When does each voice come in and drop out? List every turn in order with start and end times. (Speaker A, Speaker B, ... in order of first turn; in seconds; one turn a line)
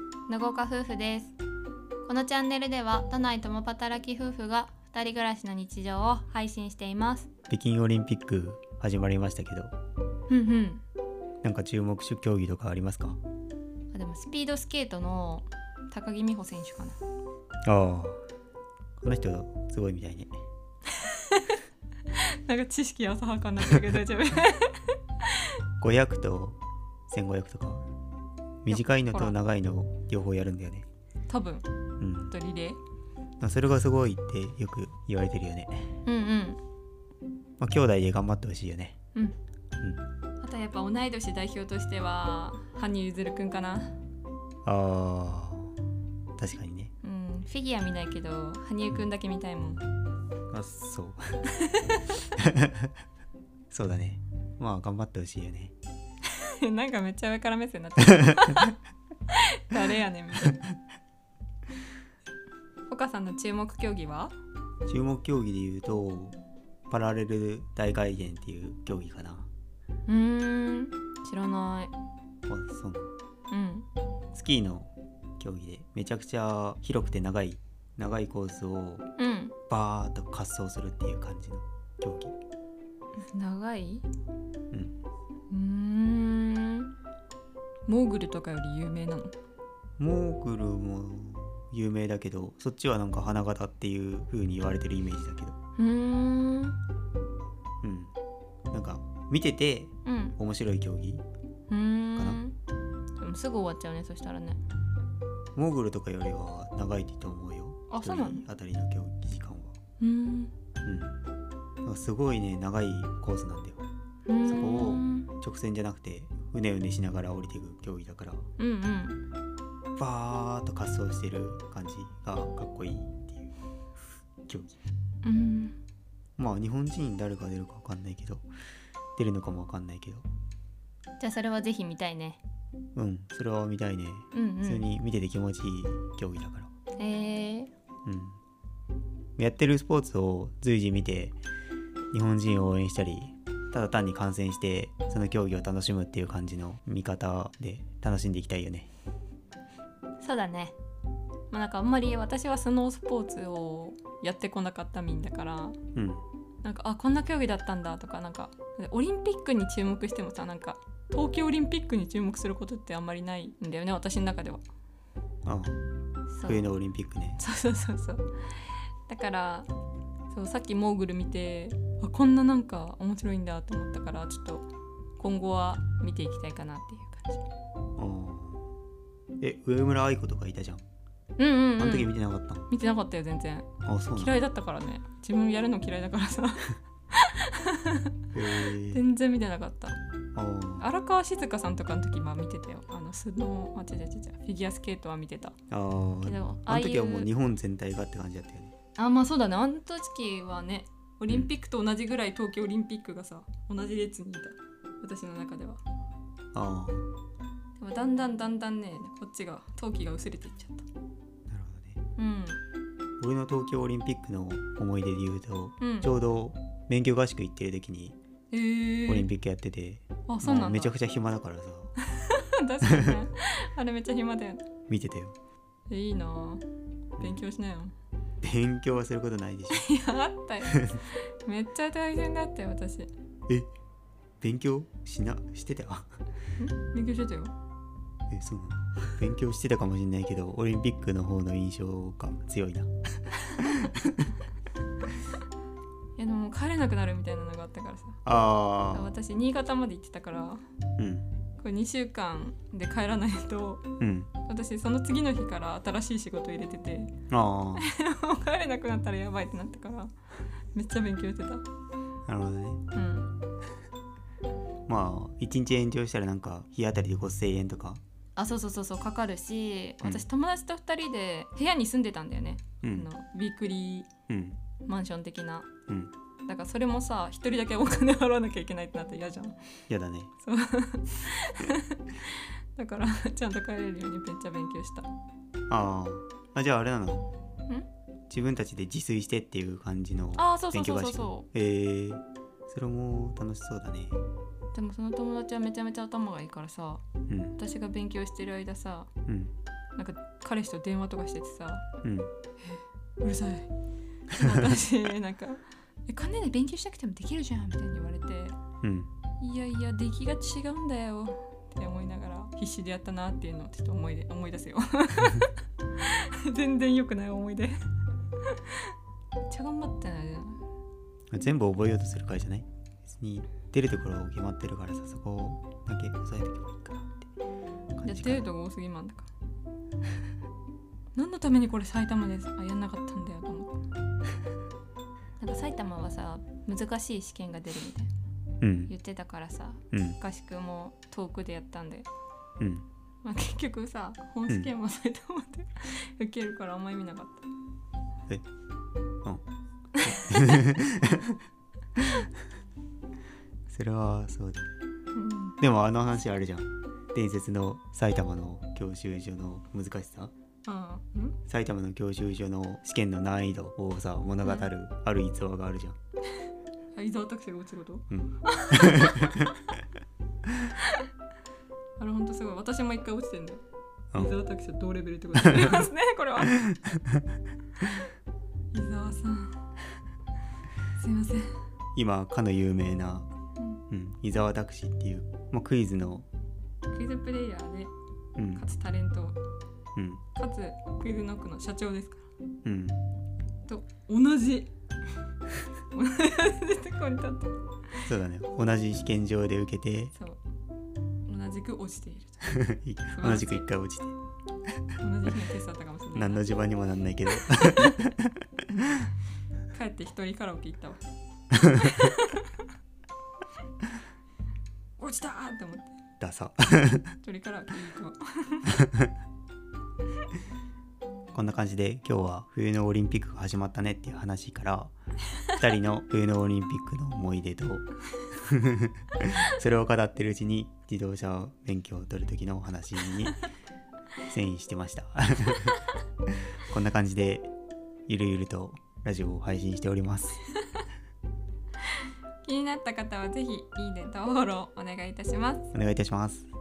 Speaker A: 0.3-1.4
Speaker A: 2.1-7.3
Speaker B: 7.5-9.7
Speaker A: 10.3-10.8
Speaker B: 11.4-13.2
Speaker A: 13.9-17.0
Speaker B: 17.6-18.2
Speaker B: 19.0-20.3
Speaker A: 20.9-21.6
Speaker A: 22.1-25.5
Speaker B: 25.8-27.9
Speaker B: 28.6-30.9
Speaker A: 28.7-29.4
Speaker A: 31.3-31.7
Speaker B: 32.0-32.4
Speaker A: 32.3-32.8
Speaker B: 33.4-36.0
Speaker A: 36.0-36.6
Speaker B: 37.6-39.0
Speaker A: 40.4-44.0
Speaker B: 44.6-45.8
Speaker B: 46.4-46.9
Speaker A: 47.0-49.9
Speaker B: 50.5-51.5
Speaker A: 51.6-52.2
Speaker B: 52.4-52.9
Speaker B: 53.7-55.7
Speaker A: 56.3-58.8
Speaker A: 59.3-60.6
Speaker A: 62.9-64.3
Speaker B: 64.9-66.4
Speaker B: 66.9-69.5
Speaker A: 70.1-71.9
Speaker B: 72.5-73.1
Speaker A: 73.5-73.9
Speaker B: 74.3-79.1
Speaker A: 79.2-79.5
Speaker B: 79.7-82.4
Speaker A: 83.2-84.1
Speaker B: 84.7-85.0
Speaker A: 85.5-86.9
Speaker A: 87.9-89.3
Speaker B: 90.0-95.5
Speaker A: 95.8-96.8
Speaker B: 97.8-98.1
Speaker B: 98.7-101.2
Speaker A: 100.0-100.4
Speaker A: 101.7-102.6
Speaker B: 102.2-102.4
Speaker A: 103.2-104.6
Speaker B: 105.5-109.8
Speaker A: 107.9-108.5
Speaker A: 110.0-110.5
Speaker B: 110.8-111.2
Speaker B: 111.8-113.8
Speaker A: 114.3-115.3
Speaker B: 114.4-118.5
Speaker A: 118.6-119.2
Speaker B: 120.0-123.5
Speaker B: 124.4-124.7
Speaker A: 125.2-125.8
Speaker B: 126.4-128.5
Speaker B: 129.2-130.3
Speaker A: 131.2-132.4
Speaker B: 132.9-136.7
Speaker A: 134.3-134.9
Speaker A: 137.0-137.7
Speaker B: 138.1-138.4
Speaker B: 139.4-141.4
Speaker B: 142.1-148.9
Speaker A: 150.2-150.8
Speaker A: 151.5-155.8
Speaker B: 155.9-156.2
Speaker A: 156.6-164.6
Speaker B: 165.5-165.8
Speaker A: 166.3-166.7
Speaker B: 166.4-167.4
Speaker A: 167.4-169.7
Speaker A: 170.3-177.4
Speaker B: 178.0-178.7
Speaker B: 179.4-180.8
Speaker A: 181.4-182.2
Speaker B: 181.8-182.7
Speaker A: 182.7-188.1
Speaker B: 183.8-184.4
Speaker B: 188.3-189.0
Speaker A: 188.7-190.0
Speaker B: 190.3-190.9
Speaker A: 190.8-195.6
Speaker B: 195.7-198.7
Speaker A: 196.2-197.3
Speaker A: 199.0-205.8
Speaker B: 206.5-207.1
Speaker A: 207.8-210.8
Speaker B: 211.5-212.0
Speaker A: 212.2-212.6
Speaker B: 213.2-218.2
Speaker A: 215.8-216.1
Speaker A: 218.5-219.3
Speaker B: 219.1-222.0
Speaker A: 220.3-220.9
Speaker A: 222.1-224.7
Speaker B: 222.8-223.2
Speaker B: 224.9-225.3
Speaker A: 225.9-226.7
Speaker B: 227.2-227.4
Speaker A: 227.2-227.9
Speaker B: 228.4-229.9
Speaker A: 229.7-233.1
Speaker B: 234.4-236.1
Speaker A: 236.6-237.5
Speaker B: 238.3-242.9
Speaker B: 243.6-244.2
Speaker A: 246.2-248.2
Speaker B: 248.2-249.2
Speaker A: 248.9-250.6
Speaker B: 251.0-251.3
Speaker A: 251.6-253.8
Speaker B: 254.0-254.3
Speaker A: 254.4-257.1
Speaker B: 257.3-257.9
Speaker A: 257.8-260.1
Speaker A: 260.7-261.6
Speaker B: 262.3-262.8
Speaker A: 262.9-263.4
Speaker B: 264.9-268.0
Speaker A: 268.4-274.1
Speaker B: 272.8-273.1
Speaker B: 274.3-274.6
Speaker A: 274.9-275.7
Speaker B: 275.9-276.1
Speaker A: 276.5-279.6
Speaker B: 279.9-280.3
Speaker A: 280.4-285.1
Speaker B: 285.7-287.3
Speaker B: 288.3-294.2
Speaker A: 290.4-291.5
Speaker A: 294.7-297.0
Speaker B: 297.3-297.6
Speaker A: 297.6-299.1
Speaker B: 299.3-299.5
Speaker A: 300.0-301.9
Speaker B: 302.0-302.3
Speaker A: 302.6-303.7
Speaker A: 304.3-308.6
Speaker B: 308.8-309.1
Speaker A: 309.4-317.8
Speaker A: 318.4-318.9
Speaker A: 319.5-320.6
Speaker B: 321.3-327.3
Speaker B: 328.0-328.5
Speaker A: 328.0-329.3
Speaker A: 331.1-333.8
Speaker A: 335.4-338.1
Speaker B: 338.6-338.9
Speaker A: 338.9-342.1
Speaker B: 339.9-340.2
Speaker B: 342.6-342.9
Speaker A: 343.2-347.5
Speaker A: 350.0-350.4
Speaker B: 350.0-351.4
Speaker B: 352.0-352.3
Speaker B: 353.7-354.8
Speaker A: 355.1-355.6
Speaker B: 355.6-360.3
Speaker A: 360.6-361.4
Speaker B: 361.5-366.0
Speaker A: 364.4-364.7
Speaker A: 366.9-369.8
Speaker B: 368.1-369.5
Speaker A: 370.8-371.1
Speaker A: 372.0-373.6
Speaker A: 374.1-376.6
Speaker B: 375.4-375.9
Speaker B: 376.4-377.2
Speaker A: 378.7-379.6
Speaker A: 381.0-381.5
Speaker B: 382.0-383.3
Speaker B: 383.9-386.3
Speaker A: 386.9-387.9
Speaker B: 388.4-388.6
Speaker A: 388.5-389.4
Speaker B: 390.0-390.2
Speaker A: 390.4-392.2
Speaker B: 392.6-393.0
Speaker A: 393.7-394.7
Speaker A: 395.9-397.5
Speaker B: 398.1-400.1
Speaker A: 401.3-402.6
Speaker B: 402.4-404.2
Speaker A: 403.1-403.7
Speaker A: 405.0-406.5
Speaker B: 406.1-408.6
Speaker A: 409.7-411.0
Speaker B: 411.5-411.9
Speaker A: 411.7-412.5
Speaker A: 415.0-416.0
Speaker B: 416.2-417.2
Speaker A: 417.2-418.8
Speaker B: 421.3-424.9
Speaker B: 425.6-433.4
Speaker B: 434.3-435.8
Speaker B: 436.7-437.5
Speaker B: 438.1-440.4
Speaker A: 442.4-445.7
Speaker B: 445.7-446.5